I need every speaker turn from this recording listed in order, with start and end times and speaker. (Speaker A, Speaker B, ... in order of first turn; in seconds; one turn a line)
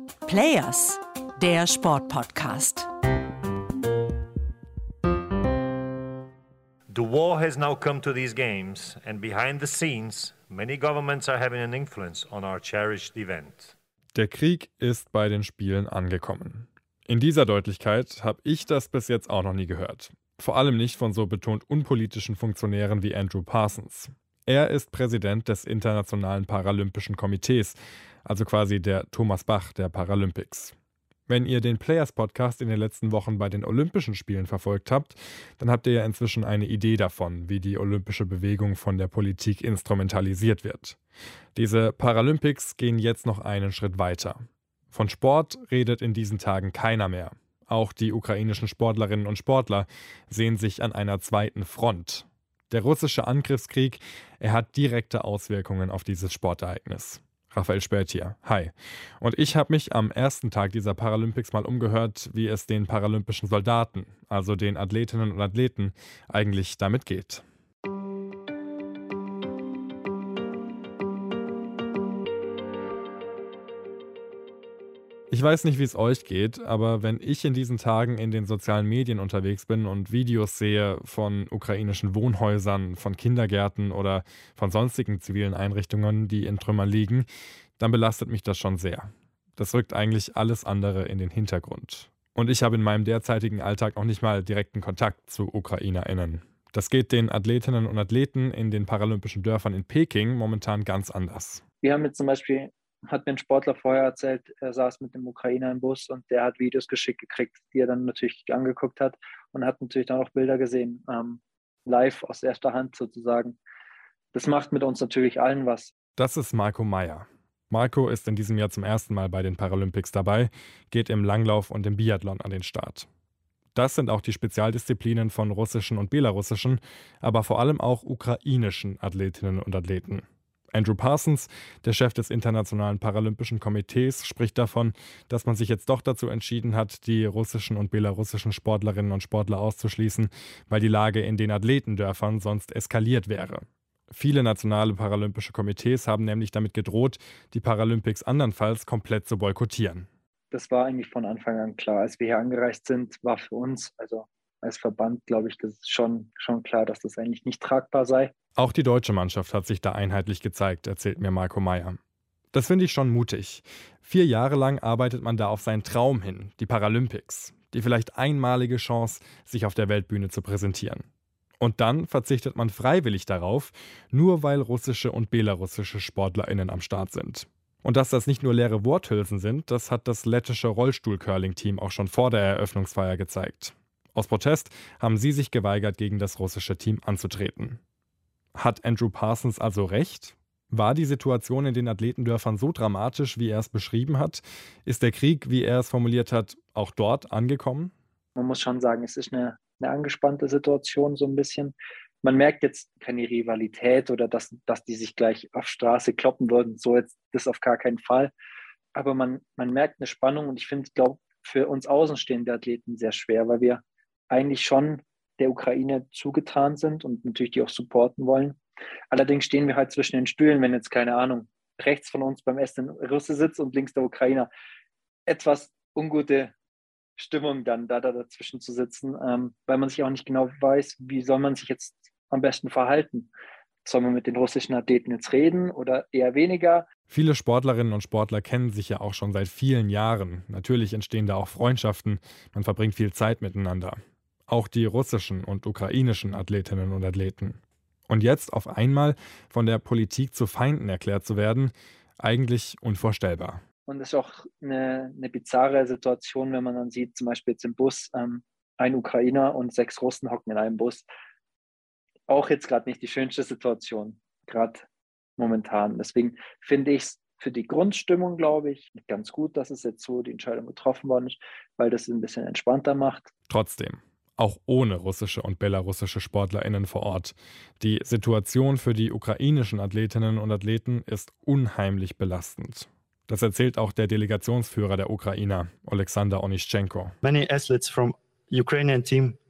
Speaker A: 0.3-2.9
Speaker B: 6.9-13.8
Speaker C: 14.2-30.8
Speaker C: 31.3-41.0
Speaker C: 41.5-67.4
Speaker C: 75.3-87.3
Speaker C: 87.8-101.6
Speaker D: 101.8-113.6
Speaker D: 114.3-115.9
Speaker C: 116.2-123.1
Speaker C: 123.8-150.1
Speaker D: 150.5-158.3
Speaker C: 158.6-162.0
Speaker C: 162.5-171.1
Speaker C: 171.6-187.8
Speaker C: 188.6-197.9
Speaker D: 198.4-208.3
Speaker D: 208.9-218.6
Speaker D: 219.1-224.5
Speaker D: 225.3-226.5
Speaker D: 227.2-233.3
Speaker D: 233.8-236.9
Speaker C: 237.1-253.6
Speaker D: 253.9-261.1
Speaker D: 262.3-264.9
Speaker D: 265.4-273.3
Speaker C: 273.5-287.1
Speaker E: 287.2-289.4